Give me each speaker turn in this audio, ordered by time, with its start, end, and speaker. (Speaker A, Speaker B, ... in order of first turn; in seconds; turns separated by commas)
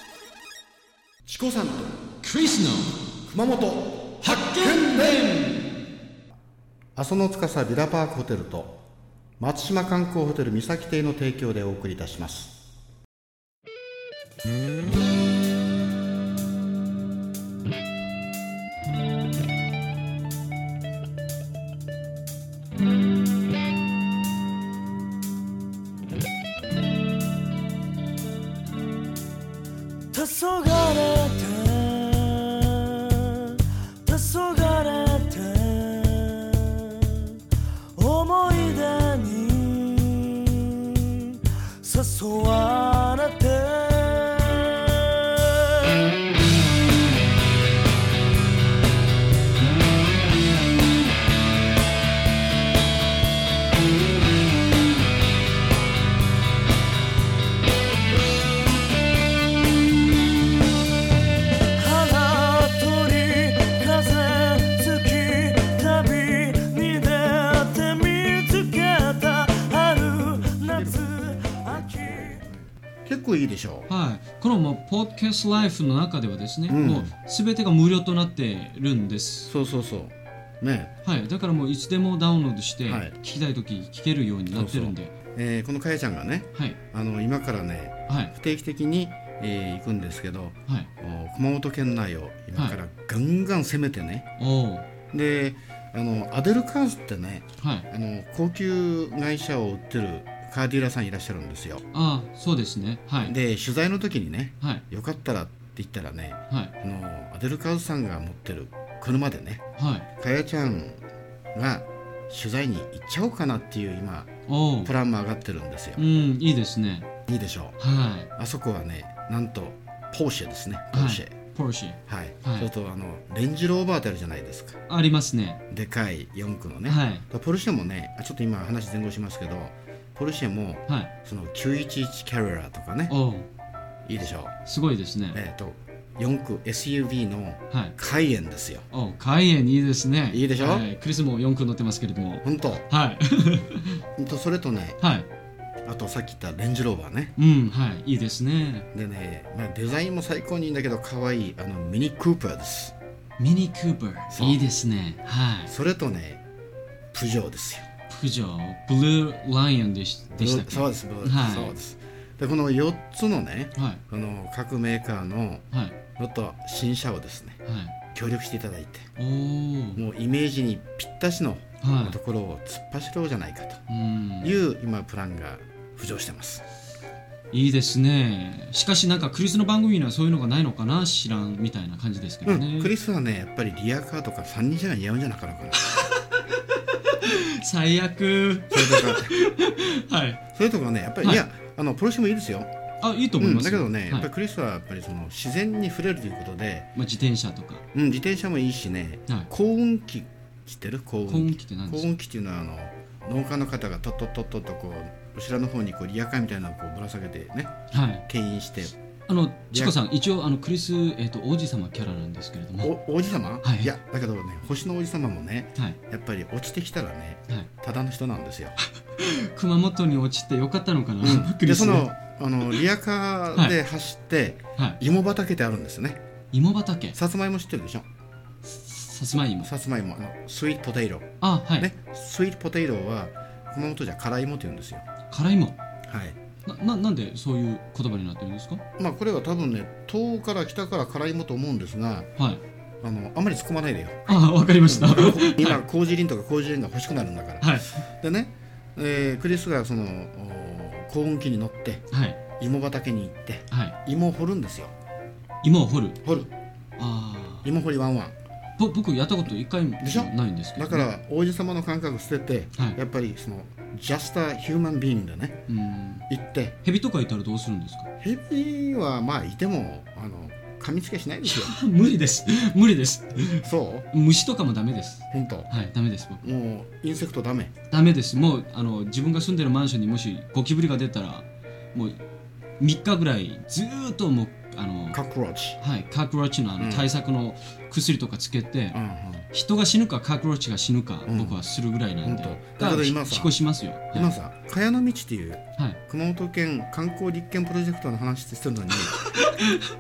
Speaker A: 1.2-2.0, Speaker B: 2.2-3.0, Speaker A: 3.3-5.4, Speaker B: 4.2-5.7, Speaker A: 7.0-8.8, Speaker A: 9.4-12.5, Speaker B: 30.1-30.5, Speaker C: 30.1-32.7, Speaker C: 33.2-37.3, Speaker B: 34.1-34.4, Speaker C: 38.0-40.8, Speaker C: 41.7-45.5, Speaker C: 61.8-72.5, Speaker B: 65.7-70.5, Speaker A: 73.1-73.9, Speaker B: 73.9-79.5, Speaker A: 76.7-77.1, Speaker A: 79.5-80.9, Speaker B: 81.0-85.1, Speaker A: 82.9-83.1, Speaker A: 84.5-94.3, Speaker B: 94.4-94.9, Speaker A: 95.1-101.8, Speaker B: 97.6-97.9, Speaker B: 101.9-103.3, Speaker A: 103.2-109.6, Speaker B: 109.8-110.1, Speaker A: 110.2-111.0, Speaker A: 111.5-114.3, Speaker B: 114.5-114.9, Speaker A: 114.8-116.0, Speaker B: 116.0-117.1, Speaker A: 117.3-117.8, Speaker B: 117.8-118.3, Speaker A: 118.4-121.3, Speaker B: 120.9-122.7, Speaker A: 122.1-124.8, Speaker B: 124.9-125.6, Speaker A: 125.7-133.1, Speaker B: 126.9-127.2, Speaker B: 133.1-133.5, Speaker A: 134.1-134.5, Speaker B: 134.7-135.4, Speaker A: 135.3-138.9, Speaker B: 138.9-144.0, Speaker A: 140.3-140.9, Speaker A: 142.4-142.8, Speaker A: 144.2-145.0, Speaker B: 145.0-145.3, Speaker A: 145.8-147.3, Speaker B: 147.4-148.9, Speaker A: 148.9-152.9, Speaker B: 153.4-155.7, Speaker A: 154.3-154.6, Speaker A: 155.7-156.4, Speaker A: 157.1-157.9, Speaker B: 158.1-161.8, Speaker A: 160.3-165.7, Speaker A: 166.2-167.6, Speaker B: 167.7-167.9, Speaker A: 168.1-169.1, Speaker B: 169.2-170.0, Speaker A: 169.9-173.8, Speaker B: 171.8-172.2, Speaker B: 173.9-174.6, Speaker A: 174.4-176.6, Speaker B: 177.5-182.9, Speaker A: 182.4-185.8, Speaker B: 187.1-190.4, Speaker A: 188.7-189.3, Speaker A: 190.5-192.7, Speaker B: 193.0-194.3, Speaker A: 193.4-196.9, Speaker B: 196.9-197.8, Speaker A: 197.9-207.7, Speaker B: 201.3-202.1, Speaker B: 207.9-208.2, Speaker A: 208.2-208.9, Speaker B: 209.3-212.9, Speaker A: 212.8-218.8, Speaker B: 213.6-213.9, Speaker B: 219.2-222.1, Speaker A: 221.2-226.2, Speaker B: 226.5-227.2, Speaker A: 227.1-228.1, Speaker B: 228.6-229.7, Speaker A: 229.6-235.1, Speaker B: 231.4-231.9, Speaker B: 235.3-235.8, Speaker A: 236.1-236.4, Speaker B: 236.7-238.8, Speaker A: 239.0-242.3, Speaker A: 243.0-254.9, Speaker B: 244.3-245.8, Speaker B: 247.6-247.9, Speaker B: 252.1-252.4, Speaker B: 253.7-253.9, Speaker B: 255.6-256.2, Speaker A: 256.2-256.5, Speaker B: 257.0-257.7, Speaker A: 257.6-258.3, Speaker B: 258.8-261.1, Speaker A: 260.0-265.6, Speaker B: 265.7-266.3, Speaker A: 266.3-266.8, Speaker B: 266.8-268.1, Speaker A: 268.2-271.8, Speaker B: 271.4-276.4, Speaker A: 273.6-274.1, Speaker A: 275.3-275.7, Speaker A: 276.4-277.7, Speaker B: 277.9-282.2, Speaker B: 282.8-285.2, Speaker A: 285.1-285.8, Speaker B: 285.8-289.0, Speaker A: 286.8-287.1, Speaker A: 288.9-289.5, Speaker B: 289.5-294.3, Speaker A: 291.2-291.6, Speaker A: 292.2-293.5, Speaker A: 294.1-299.2, Speaker B: 299.1-299.8